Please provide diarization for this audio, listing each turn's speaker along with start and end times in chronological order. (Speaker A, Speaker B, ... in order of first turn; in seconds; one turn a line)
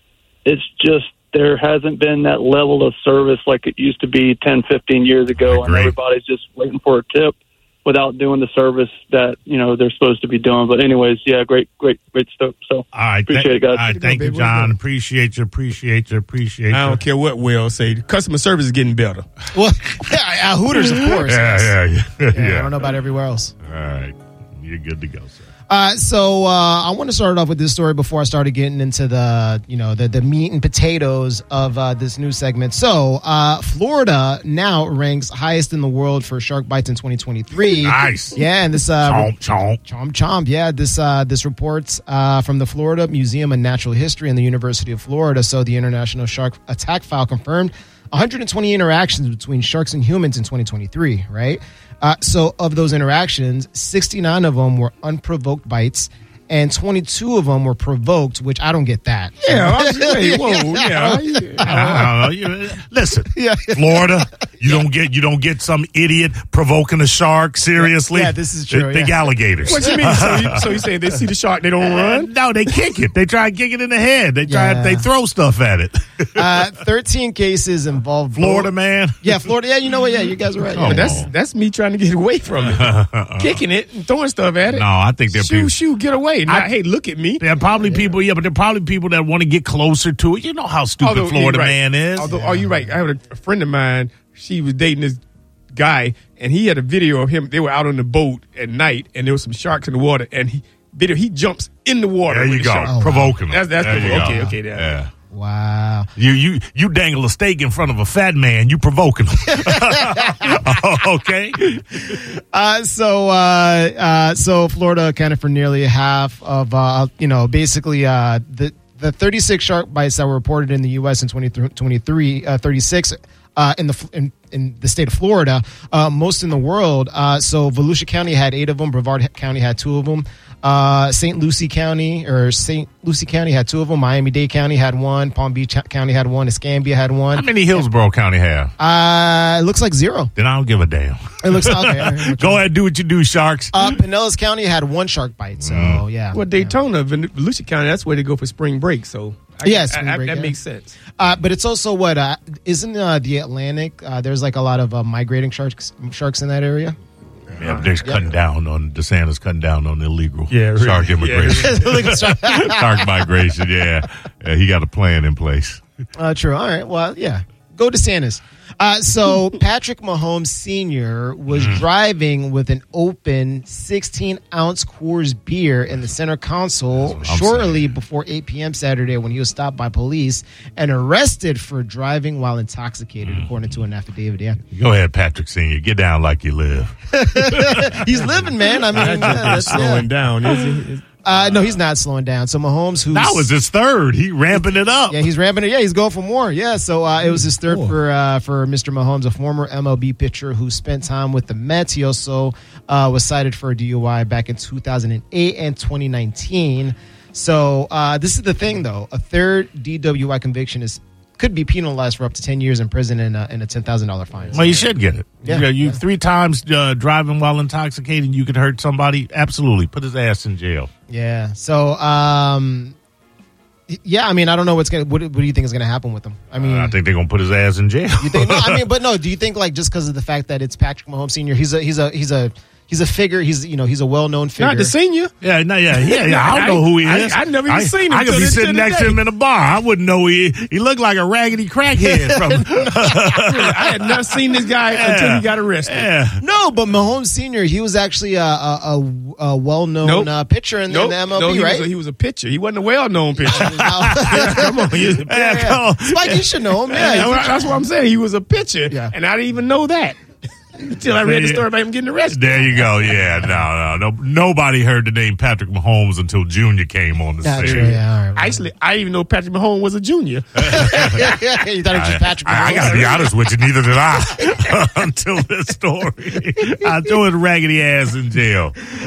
Speaker A: 0.5-13.9
Speaker B: 5.4-5.9
Speaker B: 12.9-17.0
Speaker C: 13.9-14.8
Speaker C: 16.7-19.3
Speaker D: 19.5-21.7
Speaker B: 20.7-22.9
Speaker D: 22.3-23.5
Speaker B: 23.6-25.5
Speaker D: 25.7-39.3
Speaker B: 37.7-38.4
Speaker B: 39.0-39.8
Speaker D: 39.8-62.3
Speaker C: 59.5-62.0
Speaker B: 61.6-70.7
Speaker D: 63.3-64.8
Speaker D: 67.8-69.8
Speaker C: 69.7-72.3
Speaker B: 71.8-76.7
Speaker D: 74.5-75.1
Speaker D: 76.3-81.2
Speaker B: 78.4-79.5
Speaker B: 80.6-81.3
Speaker C: 80.8-87.5
Speaker B: 82.6-83.6
Speaker B: 84.7-85.8
Speaker B: 86.5-86.7
Speaker B: 87.4-92.3
Speaker C: 91.0-95.2
Speaker D: 92.2-92.8
Speaker C: 95.7-104.9
Speaker B: 102.3-105.1
Speaker D: 102.8-103.4
Speaker D: 103.9-104.4
Speaker D: 105.3-106.1
Speaker B: 106.2-112.2
Speaker D: 109.5-110.8
Speaker D: 112.1-137.8
Speaker B: 137.3-138.7
Speaker D: 138.8-140.3
Speaker B: 140.4-144.0
Speaker D: 141.4-142.6
Speaker D: 143.7-146.8
Speaker B: 145.6-146.0
Speaker C: 146.3-151.0
Speaker D: 149.6-150.5
Speaker D: 151.2-157.0
Speaker B: 157.6-165.8
Speaker C: 157.6-157.9
Speaker C: 160.5-162.0
Speaker D: 161.6-163.2
Speaker D: 166.2-184.6
Speaker B: 171.5-171.8
Speaker B: 176.9-177.9
Speaker B: 183.2-183.7
Speaker B: 184.7-188.3
Speaker D: 187.1-190.1
Speaker B: 188.9-189.9
Speaker C: 188.9-191.1
Speaker D: 191.2-193.5
Speaker B: 191.3-191.6
Speaker B: 193.1-195.3
Speaker D: 195.1-214.9
Speaker C: 197.7-197.9
Speaker B: 214.5-220.9
Speaker D: 215.4-216.0
Speaker D: 221.1-222.9
Speaker D: 223.9-227.0
Speaker B: 226.5-228.8
Speaker D: 228.2-234.9
Speaker C: 234.6-235.3
Speaker B: 235.4-246.4
Speaker C: 235.9-239.2
Speaker D: 242.0-243.1
Speaker C: 243.4-246.1
Speaker D: 246.4-251.9
Speaker C: 250.0-250.3
Speaker C: 250.9-255.8
Speaker D: 253.5-254.9
Speaker B: 253.6-254.7
Speaker B: 255.2-256.5
Speaker D: 255.4-257.7
Speaker C: 256.9-260.2
Speaker D: 258.9-259.1
Speaker C: 260.8-263.2
Speaker B: 261.2-261.7
Speaker B: 262.3-268.0
Speaker D: 267.4-268.7
Speaker C: 267.6-270.8
Speaker B: 270.6-278.8
Speaker D: 270.7-273.3
Speaker C: 272.7-273.2